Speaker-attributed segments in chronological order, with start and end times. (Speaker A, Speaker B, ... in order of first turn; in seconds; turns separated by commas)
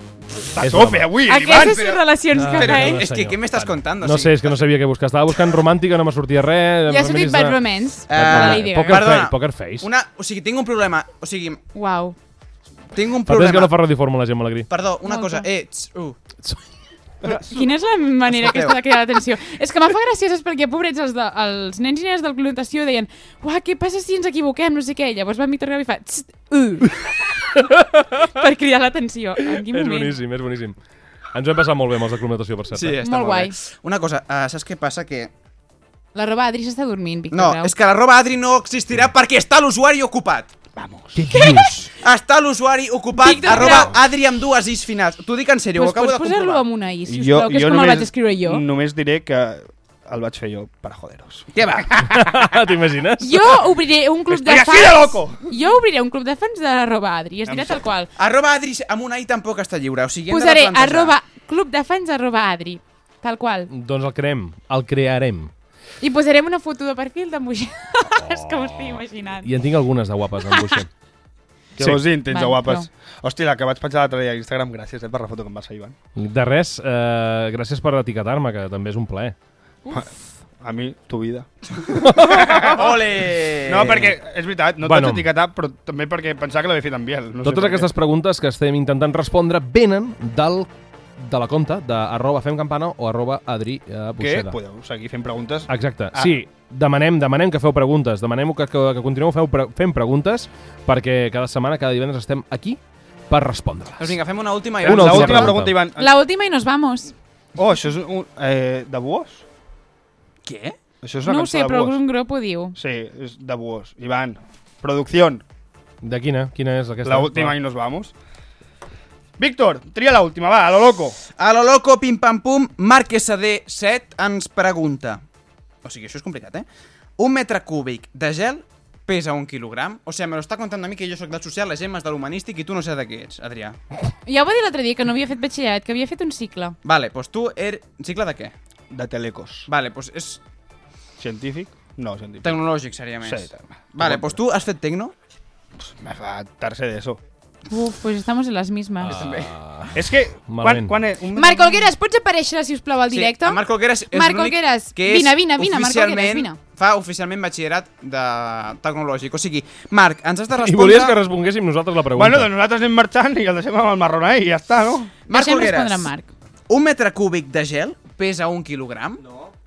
Speaker A: 0.5-1.8, Speaker B: 0.6-1.1, Speaker C: 1.2-3.0, Speaker D: 1.4-4.6, Speaker B: 2.3-7.6, Speaker C: 6.9-9.0, Speaker D: 8.1-11.6, Speaker B: 8.1-9.9, Speaker C: 11.7-12.2, Speaker D: 12.9-13.7, Speaker B: 13.2-14.7, Speaker D: 14.7-16.2, Speaker C: 15.1-15.5, Speaker C: 17.2-27.1, Speaker D: 18.3-18.8, Speaker B: 27.5-28.3, Speaker C: 28.2-30.2, Speaker B: 29.6-30.8, Speaker B: 31.3-33.0, Speaker D: 32.7-35.3, Speaker C: 33.0-33.5, Speaker C: 36.1-37.7, Speaker D: 37.3-40.5, Speaker A: 40.8-41.5, Speaker B: 41.1-41.9, Speaker C: 41.3-41.9, Speaker D: 42.0-46.6, Speaker C: 43.1-43.9, Speaker C: 45.8-48.6, Speaker A: 47.1-51.5, Speaker D: 51.5-52.4, Speaker B: 52.1-53.6, Speaker C: 53.2-58.1, Speaker A: 54.3-55.5, Speaker A: 57.5-57.8, Speaker D: 58.2-61.1, Speaker C: 60.3-63.7, Speaker B: 63.7-65.5, Speaker C: 66.0-69.5, Speaker B: 68.2-70.9, Speaker C: 70.4-70.8, Speaker A: 71.8-76.0, Speaker C: 72.2-72.9, Speaker B: 76.2-79.3, Speaker A: 80.6-83.0, Speaker B: 82.0-82.8, Speaker D: 82.2-84.1, Speaker A: 83.6-87.9, Speaker B: 84.8-85.3, Speaker B: 87.4-94.5, Speaker A: 94.2-96.4, Speaker B: 95.7-104.2, Speaker D: 104.0-105.5, Speaker B: 104.8-105.8, Speaker A: 104.8-106.1, Speaker C: 106.0-107.1, Speaker A: 107.5-109.4, Speaker D: 110.4-110.8, Speaker A: 111.0-112.0, Speaker C: 111.2-112.8, Speaker A: 112.7-115.4, Speaker B: 116.0-117.5, Speaker A: 117.0-118.1, Speaker A: 119.4-121.2, Speaker D: 121.4-125.2, Speaker D: 125.8-126.7, Speaker D: 127.2-133.8, Speaker C: 134.2-136.8, Speaker D: 136.8-138.5, Speaker A: 138.9-139.7, Speaker D: 139.7-140.4, Speaker A: 141.2-142.6, Speaker D: 142.4-145.1, Speaker A: 143.2-144.4, Speaker A: 145.8-147.2, Speaker C: 147.7-149.2, Speaker B: 149.0-151.0, Speaker D: 149.1-149.5, Speaker A: 149.9-151.9, Speaker C: 151.3-156.6, Speaker D: 153.1-161.2, Speaker B: 160.5-162.5, Speaker A: 162.1-165.1, Speaker D: 165.3-166.1, Speaker C: 165.3-166.3, Speaker D: 166.7-169.2